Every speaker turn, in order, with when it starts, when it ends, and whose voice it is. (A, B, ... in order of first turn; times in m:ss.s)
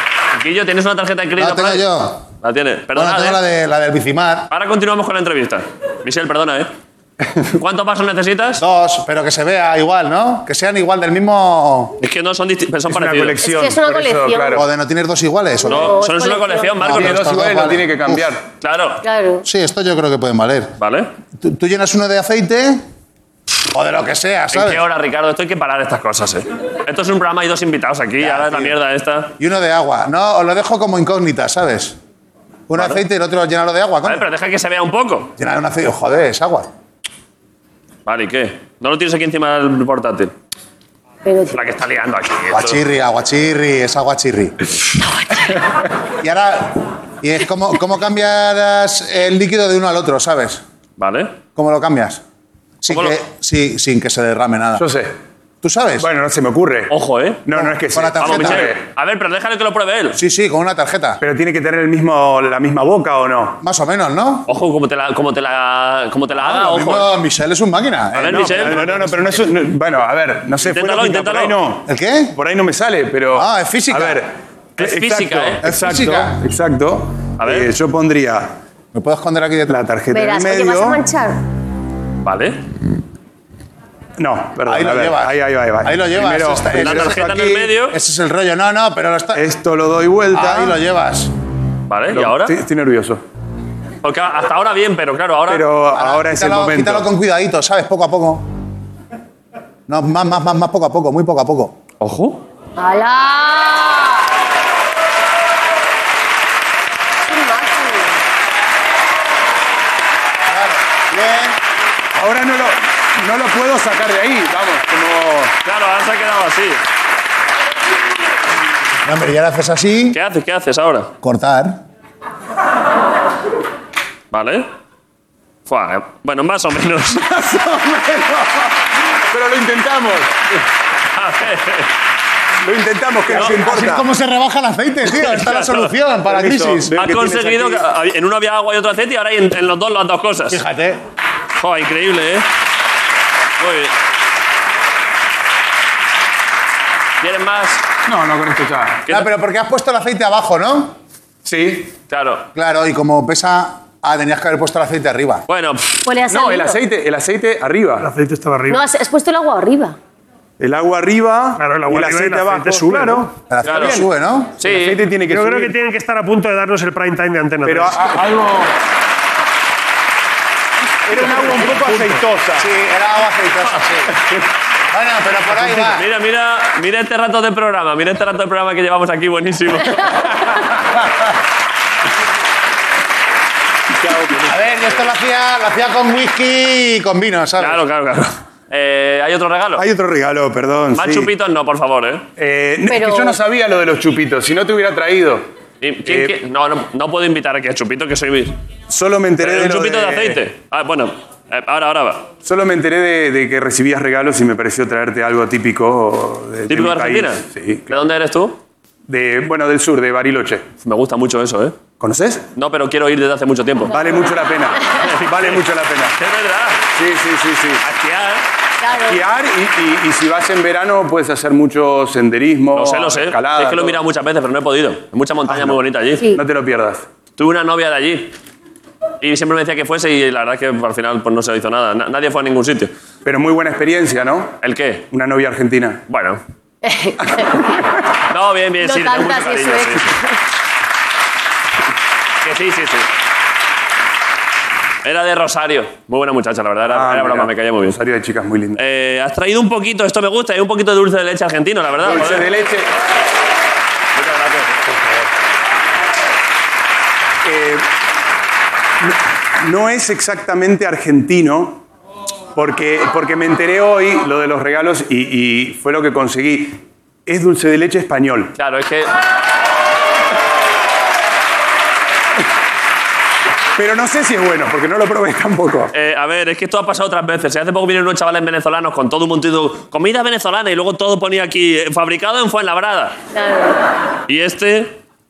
0:00.3-0:01.9 A
0:01.4-0:02.2 B
0:02.4-0:03.4 A
0:02.9-0:04.5 B
0:04.5-0:06.7 A
0:07.6-0:08.6 A
0:08.6-0:11.9 B
0:12.0-0:13.4 A
0:12.9-0:14.7 C
0:13.4-0:14.6 D
0:14.6-0:16.0 B
0:15.6-0:16.8 D
0:15.6-0:17.2 A
0:16.8-0:18.3 B
0:16.9-0:18.4 C
0:18.6-0:19.0 A
0:19.0-0:19.4 D
0:19.4-0:20.7 B
0:20.8-0:21.1 A
0:21.4-0:22.8 B
0:23.7-0:24.8 B
0:24.5-0:29.3 A
0:28.2-0:28.7 B
0:29.4-0:32.0 B
0:32.7-0:34.3 B
0:32.8-0:33.0 A
0:34.0-0:35.3 A
0:35.4-0:36.7 B
0:38.0-0:40.3 A
0:41.2-0:41.6 D
0:41.5-0:42.8 A
0:42.5-0:44.5 B
0:46.2-0:50.6 B
0:51.0-0:51.3 A
0:51.6-0:52.2 B
0:52.8-0:54.9 B
0:52.9-0:53.2 A
0:54.8-0:55.1 C
0:55.6-0:56.1 B
0:56.0-0:56.9 C
0:56.9-0:57.4 A
0:57.4-0:58.8 C
0:57.5-0:58.7 B
0:58.2-1:00.2 A
1:00.2-1:01.2 B
1:01.2-1:03.6 C
1:03.6-1:04.5 B
1:04.5-1:07.1 A
1:06.4-1:09.4 B
1:08.1-1:08.9 A
1:08.2-1:18.5 C
1:10.6-1:11.6 A
1:11.9-1:12.3 B
1:13.3-1:14.2 B
1:14.8-1:15.6 A
1:15.6-1:16.4 B
1:17.4-1:17.7 A
1:18.9-1:19.8 B
1:19.7-1:21.0 C
1:20.1-1:21.4 D
1:22.2-1:22.6 A
1:24.2-1:27.7 C
1:24.6-1:29.4 B
1:26.8-1:28.0 A
1:29.3-1:30.8 C
1:30.3-1:31.3 B
1:31.9-1:32.6 A
1:32.1-1:33.2 C
1:34.0-1:35.7 A
1:35.5-1:37.1 C
1:35.9-1:38.4 B
1:39.9-1:41.7 B
1:42.0-1:42.4 A
1:42.8-1:44.1 D
1:47.3-1:48.2 D
1:50.5-1:51.6 B
1:52.1-1:55.5 C
1:55.6-1:56.8 A
1:59.0-2:00.2 B
2:00.1-2:01.1 A
2:01.2-2:01.8 B
2:04.3-2:04.7 A
2:05.7-2:07.2 A
2:07.2-2:08.7 C
2:09.3-2:10.4 C
2:11.1-2:11.9 A
2:12.6-2:14.1 C
2:13.3-2:16.9 B
2:15.1-2:15.9 A
2:16.2-2:17.8 C
2:16.9-2:20.6 A
2:20.5-2:21.0 B
2:21.6-2:22.5 A
2:23.6-2:23.9 A
2:27.2-2:27.8 A
2:28.0-2:29.0 C
2:29.1-2:30.9 B
2:31.4-2:31.9 C
2:32.1-2:32.5 A
2:32.5-2:35.4 B
2:35.5-2:36.1 A
2:36.0-2:36.8 D
2:36.3-2:38.1 C
2:38.0-2:38.8 E
2:38.7-2:40.0 D
2:40.6-2:44.1 C
2:41.6-2:43.3 E
2:43.5-2:44.6 B
2:43.6-2:44.0 A
2:44.6-2:45.0 A
2:44.6-2:45.7 C
2:45.3-2:48.2 E
2:47.6-2:48.7 C
2:51.1-2:52.7 C
2:51.1-2:52.2 E
2:52.6-2:54.2 B
2:54.9-2:56.0 B
2:55.7-3:00.4 A
3:04.0-3:04.8 C
3:04.5-3:07.8 B
3:07.6-3:09.9 A
3:09.8-3:11.3 C
3:10.9-3:12.2 A
3:12.4-3:15.4 C
3:12.9-3:13.4 D
3:15.8-3:18.5 A
3:16.0-3:16.3 C
3:18.9-3:20.4 C
3:19.4-3:22.3 A
3:22.4-3:27.9 C
3:26.7-3:28.6 A
3:29.1-3:30.6 C
3:30.8-3:31.8 A
3:32.0-3:32.4 C
3:32.6-3:34.0 A
3:33.9-3:34.3 D
3:33.9-3:36.2 C
3:34.9-3:35.6 A
3:36.2-3:36.8 A
3:36.9-3:37.8 C
3:37.8-3:38.4 A
3:38.8-3:39.2 D
3:39.0-3:44.0 C
3:42.7-3:46.3 A
3:45.5-3:45.8 C
3:46.3-3:47.0 C
3:47.4-3:48.3 A
3:49.2-3:52.9 A
3:53.2-3:54.5 C
3:54.6-3:55.0 A
3:55.1-3:56.0 C
3:56.1-3:56.4 A
3:56.8-3:57.8 D
3:58.3-4:00.2 A
3:58.8-4:00.3 D
4:02.4-4:03.1 A
4:05.0-4:08.0 A
4:06.8-4:08.8 C
4:08.8-4:12.5 A
4:12.0-4:12.9 C
4:14.2-4:14.8 A
4:14.9-4:15.3 C
4:17.4-4:17.9 C
4:19.0-4:21.8 C
4:22.5-4:28.5 C
4:28.6-4:29.1 A
4:33.8-4:35.9 C
4:35.9-4:43.1 A
4:43.3-4:43.8 D
4:44.3-4:45.0 A